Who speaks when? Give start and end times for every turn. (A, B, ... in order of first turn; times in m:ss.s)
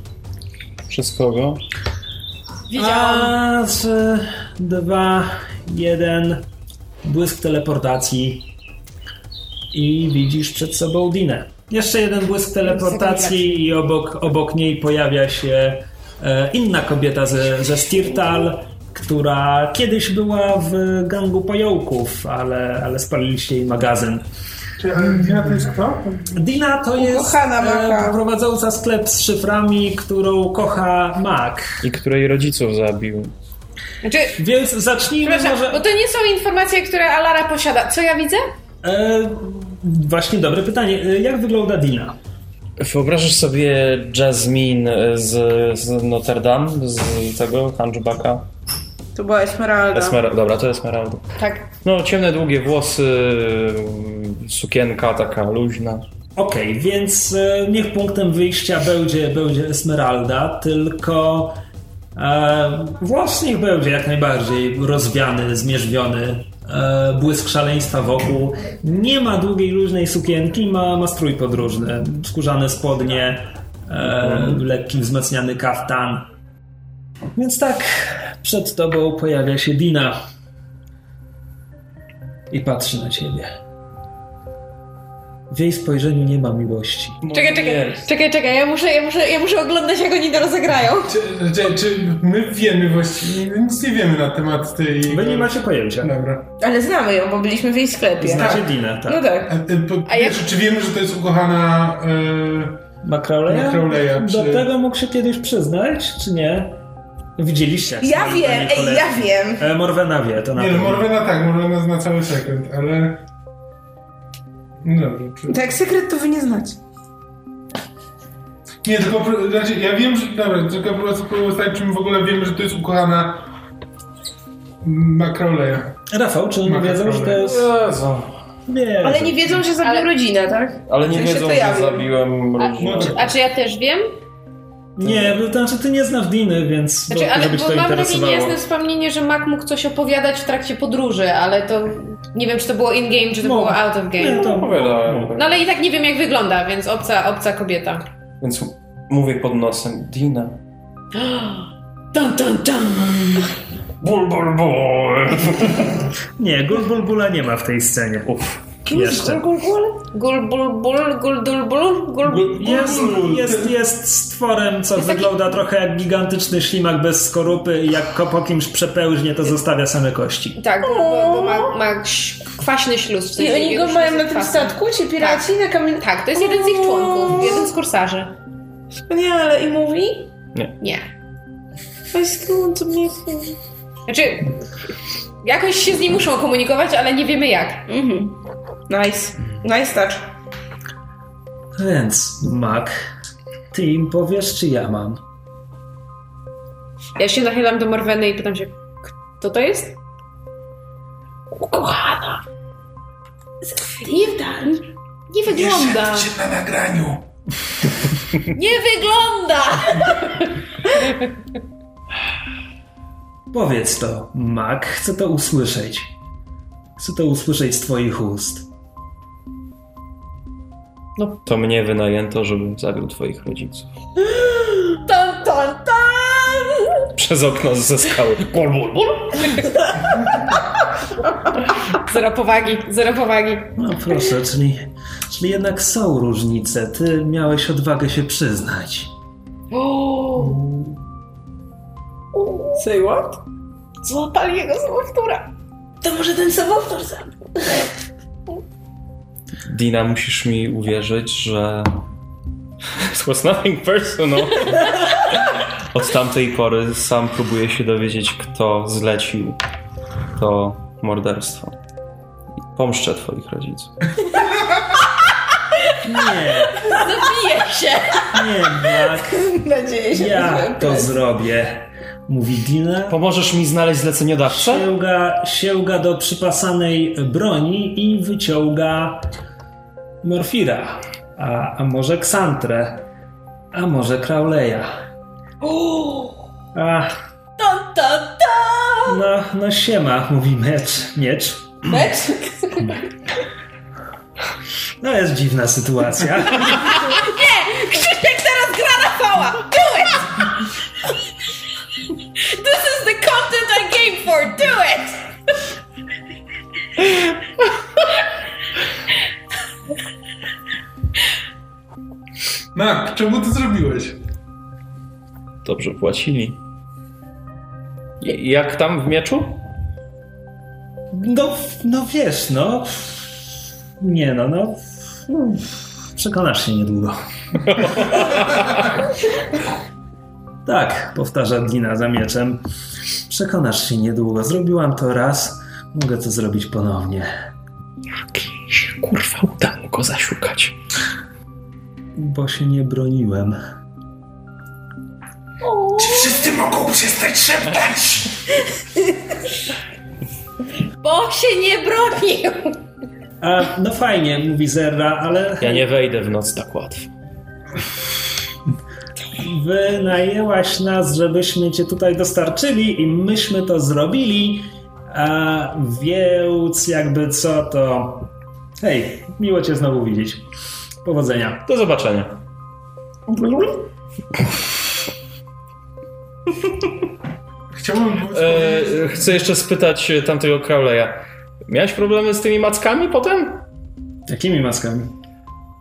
0:00.9-0:01.6 A
0:02.7-0:03.3 B
0:02.7-0:06.5 C
0:07.0-0:08.5 C
0:09.7-0:24.3 C
0:12.6-0:13.6 B
0:24.8-0:26.3 D
0:25.0-0:25.6 C
0:26.3-0:31.8 C
0:27.0-0:28.2 E
0:31.8-0:33.3 A
0:34.0-0:34.4 B
0:34.4-0:35.8 C
0:35.2-0:38.4 B
0:38.8-0:42.2 C
0:42.8-0:48.5 A
0:49.2-0:50.2 E
0:49.9-0:56.0 A
0:51.4-0:51.7 B
0:56.4-1:01.6 C
1:02.2-1:16.3 C
1:14.1-1:14.6 A
1:17.4-1:20.2 C
1:22.5-1:23.5 C
1:25.5-1:27.2 C
1:27.2-1:28.1 A
1:27.3-1:31.1 B
1:31.1-1:36.5 D
1:35.1-1:36.1 C
1:36.6-1:39.5 E
1:38.2-1:39.3 C
1:38.3-1:38.7 D
1:39.5-1:42.8 D
1:40.1-1:40.4 B
1:43.0-1:46.8 C
1:43.5-1:44.7 D
1:47.4-1:51.1 C
1:48.0-1:49.6 E
1:50.6-1:53.2 D
1:54.8-1:55.7 D
1:55.5-1:56.8 E
1:58.8-2:03.5 D
2:04.8-2:06.0 D
2:06.1-2:07.7 C
2:06.6-2:07.5 D
2:07.4-2:08.4 A
2:08.7-2:09.5 C
2:09.0-2:12.1 E
2:09.8-2:10.1 B
2:10.9-2:13.3 A
2:12.6-2:14.2 B
2:12.8-2:13.3 D
2:15.0-2:18.6 C
2:15.0-2:15.3 A
2:17.1-2:24.6 B
2:23.4-2:25.4 C
2:24.2-2:25.5 A
2:25.4-2:28.1 B
2:28.4-2:30.6 A
2:31.1-2:33.5 B
2:34.0-2:36.0 A
2:36.4-2:38.3 C
2:38.3-2:38.8 A
2:38.9-2:39.5 C
2:38.9-2:40.0 E
2:40.1-2:42.8 B
2:42.2-2:43.8 D
2:42.5-2:50.6 C
2:45.0-2:45.3 B
2:50.6-2:58.4 B
2:50.8-2:51.8 E
2:53.3-2:57.7 E
2:58.9-3:00.3 E
3:00.8-3:01.1 B
3:02.1-3:03.6 E
3:04.1-3:04.6 B
3:05.4-3:07.9 B
3:07.9-3:08.4 E
3:08.9-3:10.3 E
3:11.8-3:13.0 C
3:13.7-3:15.2 C
3:17.2-3:20.0 B
3:21.5-3:22.4 B
3:23.8-3:24.6 E
3:23.8-3:24.8 B
3:25.3-3:26.3 B
3:25.5-3:27.3 D
3:28.5-3:31.3 B
3:33.5-3:36.1 C
3:37.0-3:38.7 C
3:41.5-3:43.9 A
3:44.3-3:47.1 B
3:47.2-3:49.6 A
3:49.4-3:50.6 B
3:51.8-3:53.7 B
3:53.8-3:59.1 C
3:59.7-4:00.6 B
4:00.3-4:01.0 D
4:02.3-4:02.8 B
4:02.8-4:03.4 E
4:04.0-4:05.5 B
4:06.0-4:07.9 E
4:09.7-4:12.0 A
4:12.9-4:19.6 A
4:20.4-4:21.8 A
4:22.7-4:24.1 A
4:26.0-4:26.9 C
4:26.6-4:28.4 B
4:28.3-4:29.4 C
4:29.2-4:31.1 E
4:30.1-4:33.2 C
4:33.1-4:34.9 A
4:34.5-4:39.3 C
4:40.2-4:43.1 C
4:43.7-4:44.9 C
4:45.6-4:46.4 B
4:46.7-4:47.2 C
4:47.6-4:48.6 B
4:49.0-4:51.9 C
4:51.9-4:53.0 E
4:55.0-4:57.0 C
4:56.6-5:00.6 B
5:02.4-5:05.3 B
5:12.7-5:14.2 D
5:15.6-5:16.6 A
5:18.2-5:19.6 A
5:21.1-5:23.4 C
5:24.0-5:27.2 C
5:27.6-5:28.8 A
5:30.6-5:32.6 C
5:33.3-5:37.3 C
5:38.3-5:40.8 A
5:42.2-5:43.6 C
5:45.6-5:46.5 B
5:46.0-5:48.4 D
5:51.0-5:52.8 B
5:53.4-5:55.8 C
5:55.6-5:57.1 A
5:59.4-6:10.5 C
6:11.0-6:11.6 C
6:11.7-6:12.4 A
6:13.3-6:13.6 E
6:17.7-6:19.4 D
6:18.3-6:23.6 A
6:24.3-6:25.1 C